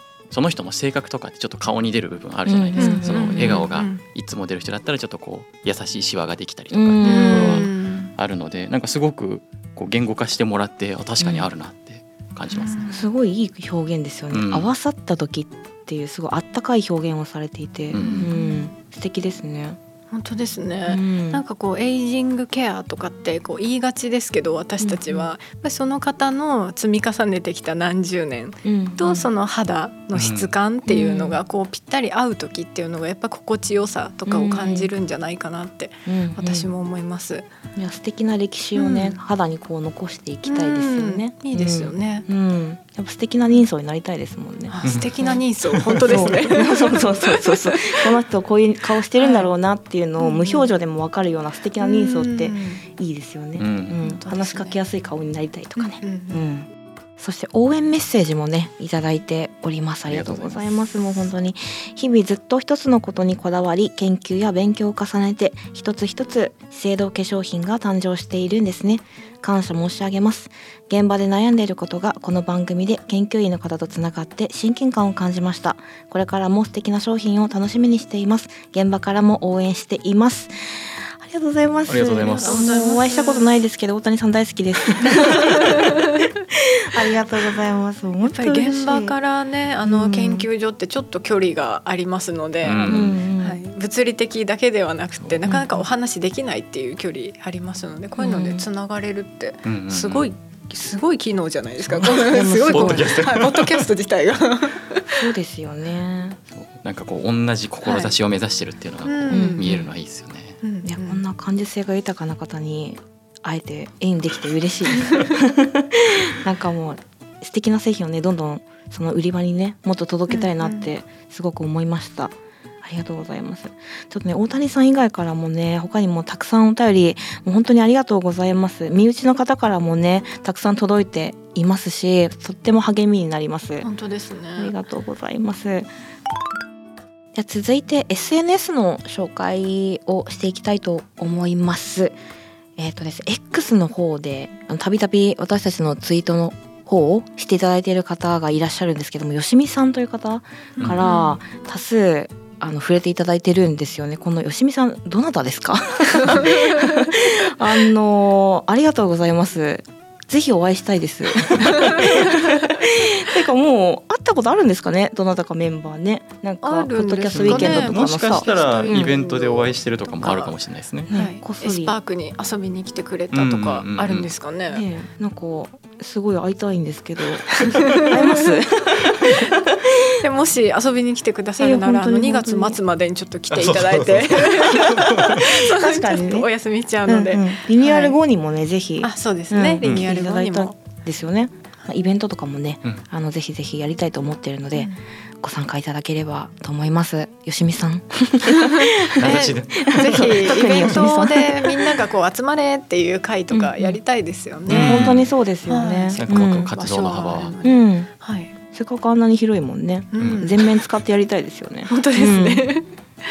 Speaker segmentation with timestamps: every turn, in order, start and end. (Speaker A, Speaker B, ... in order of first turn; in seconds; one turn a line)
Speaker A: 0.3-12.9
Speaker B: 2.5-3.6
Speaker C: 2.8-4.0
Speaker B: 6.7-7.7
Speaker C: 7.0-8.1
Speaker B: 11.2-11.5
Speaker C: 12.5-13.1
Speaker B: 12.9-19.8
Speaker A: 14.3-14.7
Speaker A: 17.9-18.3
Speaker C: 18.0-18.7
Speaker C: 20.1-37.5
Speaker B: 20.8-21.4
Speaker B: 24.8-25.3
Speaker B: 28.6-29.3
Speaker A: 30.1-30.5
Speaker B: 30.9-31.4
Speaker B: 34.2-34.9
Speaker B: 36.0-36.7
Speaker B: 37.8-80.5
Speaker C: 38.7-39.2
Speaker C: 40.4-42.3
Speaker C: 44.7-48.1
Speaker A: 44.8-45.1
Speaker C: 49.2-49.5
Speaker C: 50.2-50.7
Speaker C: 51.8-52.8
Speaker A: 53.5-54.0
Speaker C: 54.0-54.8
Speaker C: 55.8-56.4
Speaker A: 60.0-60.6
Speaker B: 81.2-89.1
Speaker A: 81.8-82.6
Speaker C: 82.3-83.6
Speaker C: 88.2-105.2
Speaker B: 89.8-90.5
Speaker A: 92.6-93.2
Speaker B: 92.8-93.6
Speaker B: 95.5-95.8
Speaker B: 98.2-98.7
Speaker A: 99.6-100.3
Speaker B: 102.1-103.2
Speaker A: 102.7-103.8
Speaker B: 105.1-106.4
Speaker A: 106.5-110.6
Speaker C: 107.8-108.1
Speaker C: 109.0-109.8
Speaker B: 109.3-109.9
Speaker C: 110.6-111.2
Speaker B: 110.8-133.9
Speaker C: 120.3-120.9
Speaker C: 133.8-134.7
Speaker B: 134.6-135.9
Speaker B: 137.3-142.2
Speaker B: 142.8-169.1
Speaker C: 150.8-151.4
Speaker A: 150.8-151.1
Speaker C: 166.6-170.5
Speaker A: 167.3-171.1
Speaker B: 171.1-171.9
Speaker C: 171.1-174.8
Speaker A: 173.3-174.3
Speaker B: 174.7-179.9
Speaker C: 177.7-178.1
Speaker C: 180.2-188.2
Speaker B: 181.6-182.8
Speaker A: 183.5-185.4
Speaker B: 184.8-186.5
Speaker B: 187.0-194.9
Speaker C: 189.0-190.7
Speaker C: 194.8-195.0
Speaker B: 195.4-201.7
Speaker C: 198.5-205.2
Speaker A: 199.1-200.9
Speaker B: 203.5-204.0
Speaker B: 204.7-206.7
Speaker A: 204.7-205.3
Speaker C: 205.7-208.5
Speaker A: 206.2-207.5
Speaker B: 207.6-208.1
Speaker B: 208.7-212.7
Speaker C: 210.1-210.6
Speaker A: 210.2-210.5
Speaker C: 211.9-212.9